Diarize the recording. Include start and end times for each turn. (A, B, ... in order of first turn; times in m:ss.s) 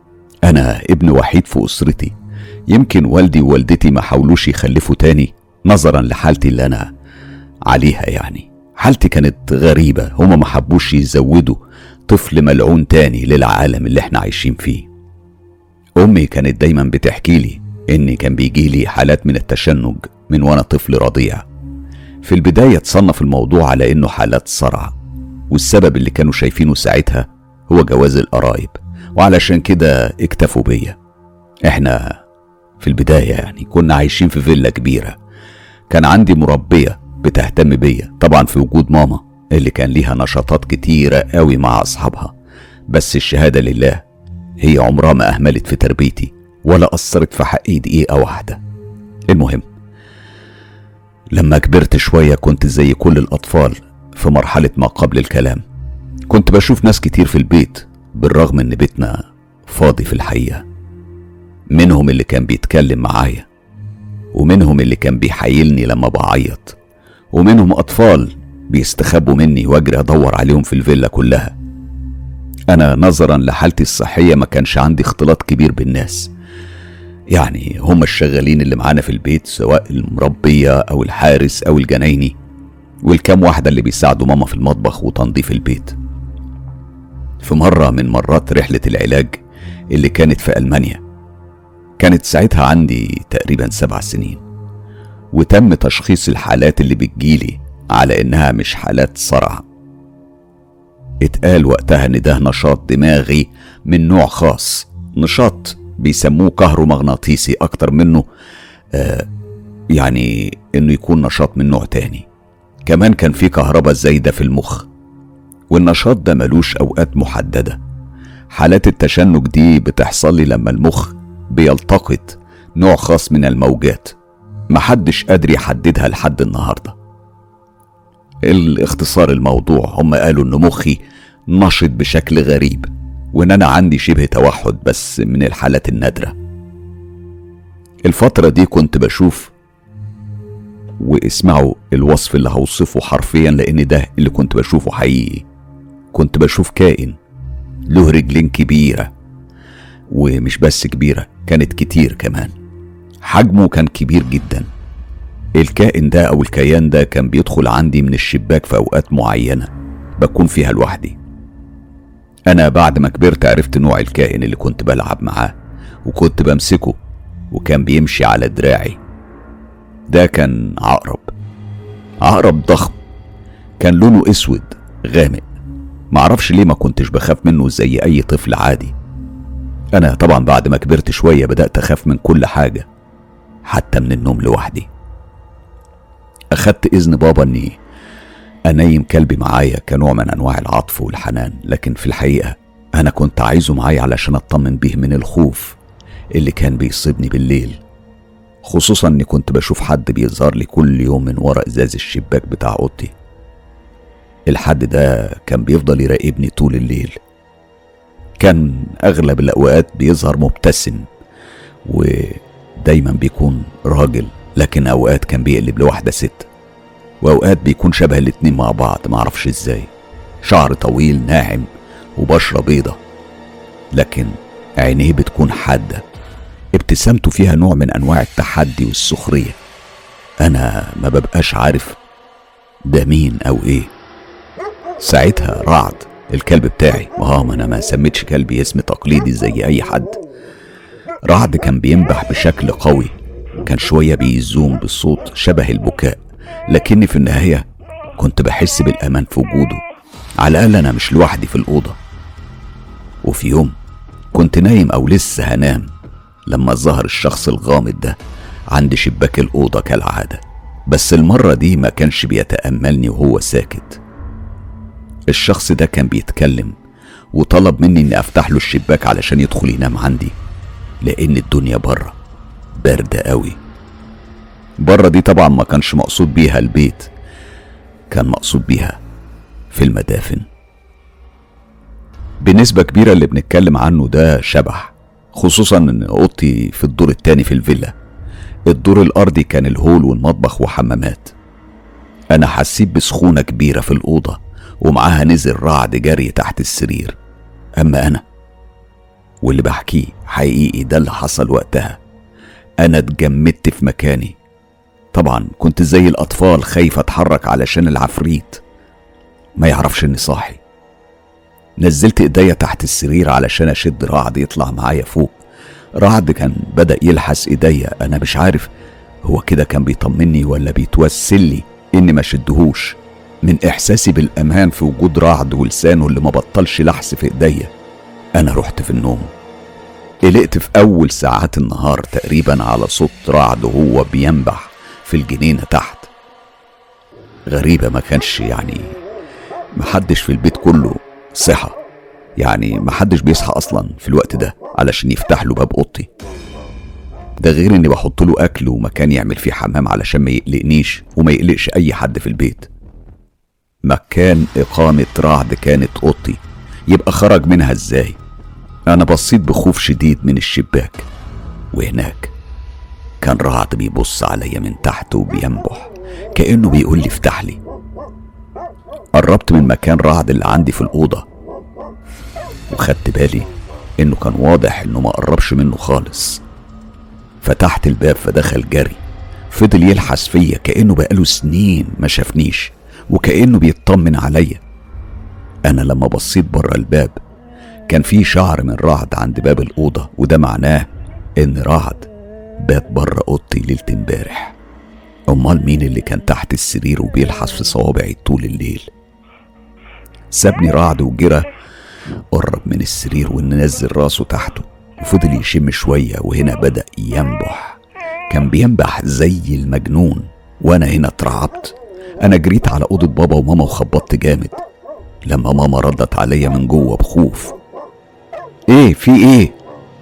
0:00.4-0:02.2 A
0:02.7-0:06.9 A
0:07.7-0:14.9 A
0:16.0-0:21.4 A
0:22.2-0:24.9 A
0:25.5-0:31.0 A
0:31.7-0:32.2 A
0:32.8-0:35.2 A
0:35.9-0:42.3 A
0:42.9-0:44.0 A
0:44.6-0:48.6 A
0:49.3-0:49.7 A
0:51.3-0:55.6 A
0:56.3-1:00.6 A
1:01.7-1:03.5 A
1:04.3-1:06.8 A
1:07.3-1:11.5 A
1:12.7-1:16.3 A
1:17.3-1:22.4 A
1:23.0-1:26.0 A
1:27.4-1:31.0 A
1:32.0-1:34.4 A
1:35.3-1:39.6 A
1:41.2-1:48.3 A
1:48.9-1:49.3 A
1:49.9-1:52.3 A
1:52.9-1:54.9 A
1:55.7-1:57.8 A
1:58.5-2:04.2 A
2:04.7-2:07.0 A
2:08.4-2:16.4 A
2:18.1-2:19.5 A
2:21.0-2:25.5 A
2:26.1-2:27.2 A
2:27.9-2:29.1 A
2:30.1-2:32.6 A
2:33.2-2:34.7 A
2:35.6-2:41.2 A
2:42.5-2:47.0 A
2:47.5-2:49.0 A
2:50.1-2:51.3 A
2:52.2-2:53.0 A
2:53.8-2:55.5 A
2:56.1-2:58.9 A
3:00.0-3:02.9 A
3:03.7-3:04.9 A
3:06.5-3:07.8 A
3:08.7-3:15.8 A
3:16.4-3:17.8 A
3:18.6-3:23.1 A
3:24.5-3:27.2 A
3:28.4-3:31.1 A
3:31.8-3:36.5 A
3:37.2-3:39.9 A
3:40.4-3:43.0 A
3:43.9-3:46.0 A
3:46.7-3:49.6 A
3:50.4-3:52.0 A
3:52.9-3:53.9 A
3:55.0-4:00.2 A
4:01.3-4:09.8 A
4:10.4-4:12.0 A
4:13.2-4:13.8 A
4:14.3-4:15.9 A
4:16.5-4:18.2 A
4:18.7-4:24.0 A
4:25.3-4:26.8 A
4:27.3-4:30.4 A
4:31.0-4:32.2 A
4:32.8-4:33.6 A
4:34.8-4:37.1 A
4:38.1-4:39.0 A
4:39.7-4:40.5 A
4:42.4-4:48.0 A
4:48.7-4:51.3 A
4:52.3-4:57.2 A
4:57.8-4:58.2 A
4:59.4-5:02.0 A
5:02.8-5:04.4 A
5:05.1-5:08.6 A
5:09.6-5:10.6 A
5:11.8-5:15.4 A
5:16.0-5:18.7 A
5:19.2-5:27.7 A
5:28.4-5:29.3 A
5:30.2-5:36.1 A
5:37.5-5:39.0 A
5:39.8-5:41.8 A
5:42.4-5:46.1 A
5:47.4-5:52.7 A
5:53.8-5:58.2 A
5:58.9-6:01.1 A
6:01.7-6:02.3 A
6:03.2-6:07.6 A
6:09.2-6:11.2 A
6:12.7-6:13.5 A
6:14.0-6:16.4 A
6:17.4-6:24.6 A
6:25.7-6:27.2 A
6:27.9-6:34.6 A
6:35.3-6:38.9 A
6:40.3-6:41.5 A
6:42.3-6:54.6 A
6:55.3-6:57.6 A
6:58.7-6:59.6 A